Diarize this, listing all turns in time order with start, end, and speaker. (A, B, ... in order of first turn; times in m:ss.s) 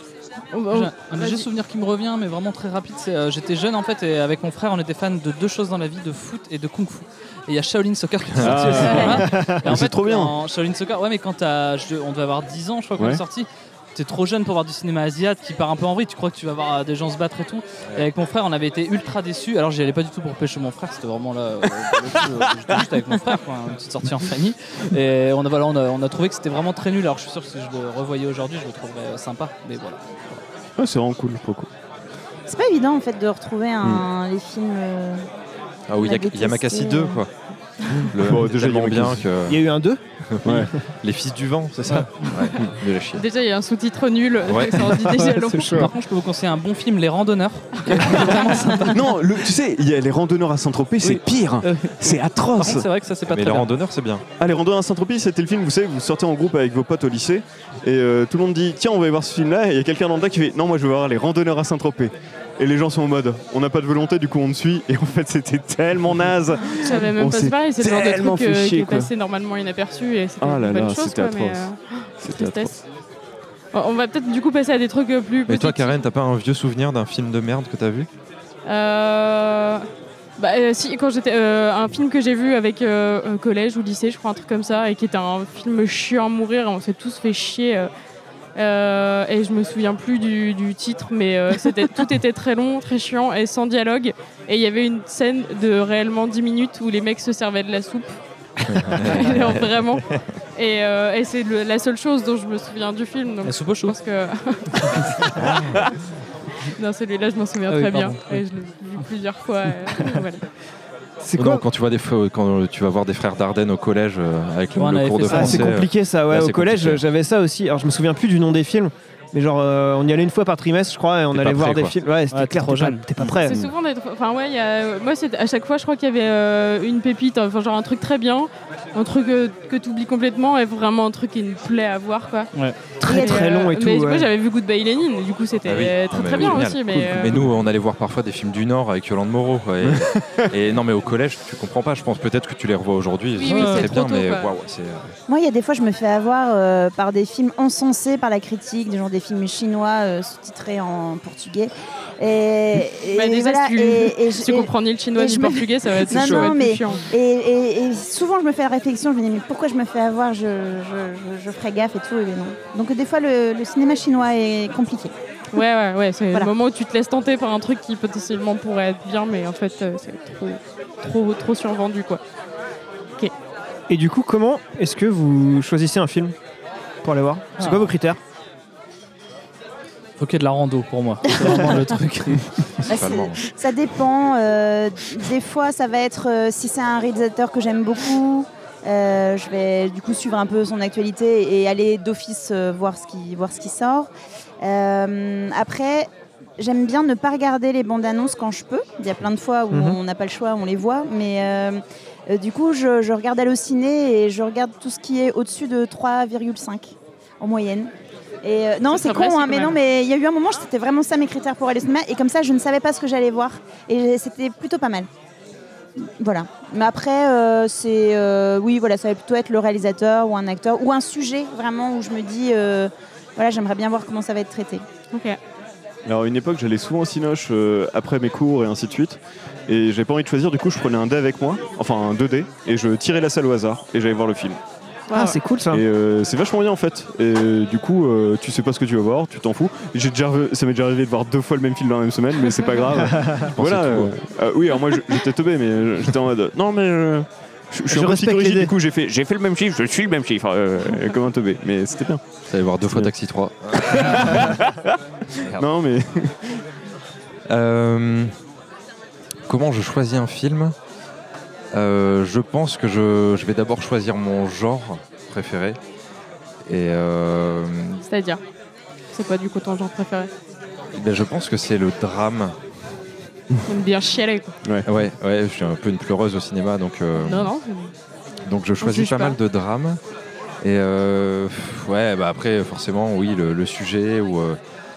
0:00.5-0:01.5 A
0:00.7-0:30.4 B
0:08.4-0:08.8 C
0:08.4-0:10.4 D
0:08.8-0:09.2 A
0:09.0-0:09.6 E
0:13.0-0:13.2 D
0:30.8-0:31.7 D
0:32.5-0:35.2 F
0:35.9-0:37.3 C
0:36.0-0:37.2 F
0:38.1-0:39.6 C
0:38.2-0:39.3 D
0:39.5-0:40.5 E
0:40.3-0:43.2 C
0:40.4-0:40.7 D
0:43.1-0:45.9 A
0:44.4-0:45.0 C
0:45.2-0:45.9 E
0:45.7-0:49.0 B
0:47.9-0:48.9 A
0:48.9-0:52.9 D
0:51.0-0:53.7 B
0:53.3-0:54.2 C
0:54.4-1:09.1 D
1:06.8-1:12.7 A
1:10.4-1:11.6 D
1:12.2-1:12.8 D
1:13.7-1:16.0 A
1:15.5-1:18.1 C
1:18.7-1:19.8 A
1:20.4-1:27.9 A
1:28.6-1:38.1 A
1:38.7-1:40.2 C
1:38.7-1:45.5 A
1:43.4-1:44.0 B
1:46.7-1:50.4 A
1:47.7-1:49.0 B
1:51.2-1:51.6 E
1:51.4-1:57.0 C
1:54.8-1:55.7 B
1:55.3-2:03.6 E
2:01.3-2:02.0 C
2:02.3-2:03.6 B
2:03.4-2:12.5 A
2:13.0-2:14.3 E
2:13.0-2:17.3 A
2:13.1-2:13.4 F
2:15.6-2:25.1 C
2:19.9-2:20.4 D
2:23.4-2:24.5 A
2:23.4-2:24.0 B
2:25.3-2:45.1 F
2:33.1-2:37.0 A
2:36.2-2:36.5 E
2:45.5-2:52.2 A
2:53.9-2:56.4 E
2:57.0-2:58.2 E
2:57.6-2:57.9 B
3:00.2-3:02.5 B
3:02.9-3:03.4 C
3:02.9-3:14.1 F
3:14.6-3:27.9 F
3:19.7-3:20.0 E
3:28.4-3:35.1 F
3:28.9-3:29.8 A
3:36.0-3:44.8 F
3:45.1-3:45.4 A
3:46.1-3:54.6 D
3:55.1-3:55.4 A
3:55.1-3:55.8 E
3:55.7-4:12.2 D
4:03.0-4:03.5 E
4:03.5-4:04.1 C
4:07.9-4:08.7 E
4:12.5-4:14.6 C
4:13.9-4:14.9 D
4:15.4-4:16.5 D
4:17.5-4:18.3 C
4:19.5-4:20.7 C
4:21.7-4:25.8 C
4:26.7-4:28.0 C
4:28.0-4:28.4 A
4:29.1-4:30.3 A
4:31.0-4:32.5 C
4:33.7-4:34.6 A
4:34.9-4:37.5 C
4:37.2-4:37.9 A
4:38.4-4:40.0 C
4:38.8-4:39.4 A
4:40.6-4:44.6 C